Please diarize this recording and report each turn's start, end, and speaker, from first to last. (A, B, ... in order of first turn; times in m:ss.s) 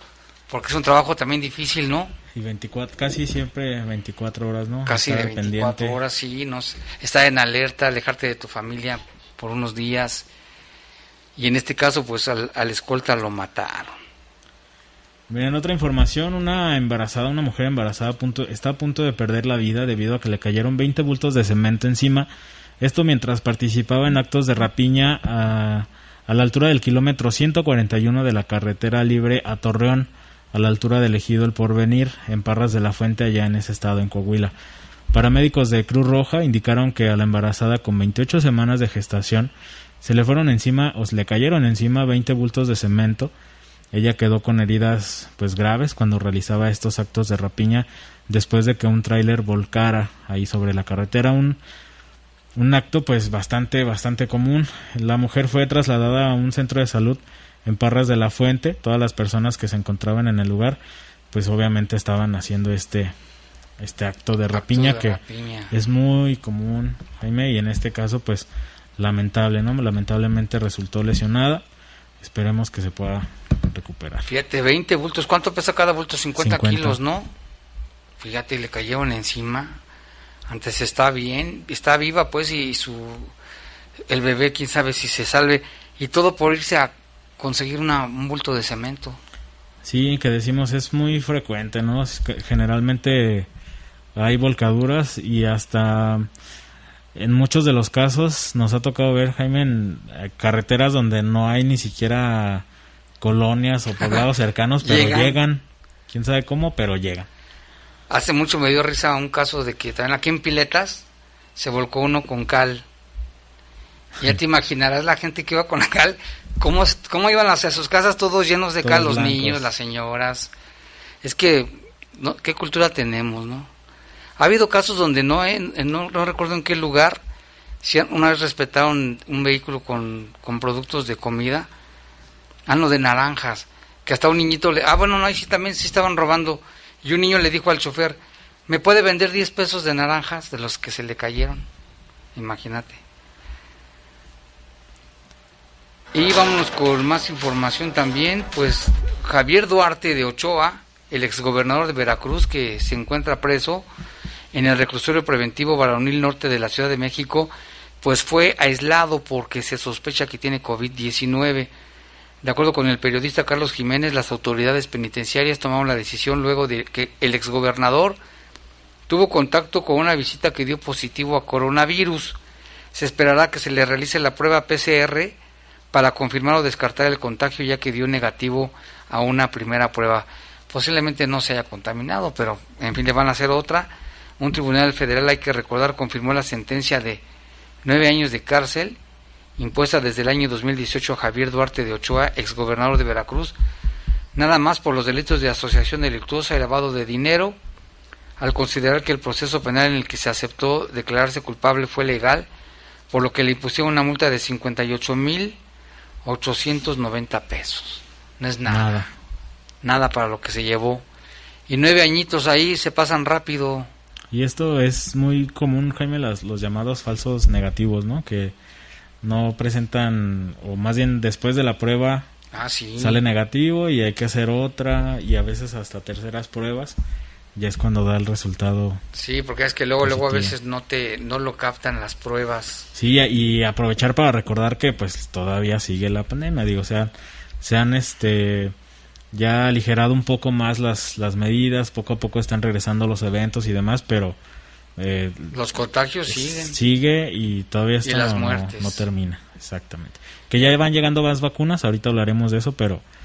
0:00.5-0:02.1 A
0:02.3-0:06.0 B
0:04.8-0:10.2 A
0:11.4-0:14.0 A
0:15.3-0:22.3 B
0:22.8-0:34.5 B
0:35.1-0:43.3 B
0:43.9-0:51.6 B
0:52.5-1:00.8 B
1:01.3-1:03.1 B
1:03.8-1:05.2 B
1:04.5-1:05.7 A
1:05.7-1:11.6 B
1:12.2-1:14.3 B
1:14.2-1:17.3 A
1:16.4-1:17.0 B
1:18.2-1:19.8 A
1:20.5-1:23.3 A
1:24.1-1:29.2 A
1:29.8-1:33.5 B
1:34.1-1:36.3 B
1:37.1-1:42.6 B
1:43.2-1:47.3 B
1:44.8-1:45.4 A
1:48.1-1:52.8 A
1:54.2-2:00.5 A
1:58.8-1:59.7 B
2:01.2-2:03.7 A
2:04.4-2:07.2 A
2:07.8-2:11.7 A
2:12.7-2:21.7 A
2:22.3-2:23.0 A
2:26.1-2:33.9 A
2:34.5-2:41.7 A
2:42.4-2:48.2 A
2:49.1-2:52.4 A
2:52.9-2:55.4 A
2:55.9-3:07.2 A
3:07.8-3:09.0 A
3:09.6-3:13.6 A
3:14.3-3:17.6 A
3:18.4-3:22.5 A
3:23.1-3:25.6 A
3:26.2-3:29.0 A
3:28.6-3:29.1 B
3:29.8-3:31.0 A
3:31.7-3:33.9 A
3:34.3-3:38.5 B
3:39.2-3:42.3 B
3:42.5-3:43.2 A
3:43.0-3:47.0 B
3:47.5-3:49.0 B
3:49.1-3:52.9 A
3:50.0-3:50.5 B
3:52.9-3:58.7 B
3:59.3-4:04.4 B
4:05.0-4:05.5 B
4:05.5-4:06.8 A
4:06.3-4:13.0 B
4:08.0-4:09.0 A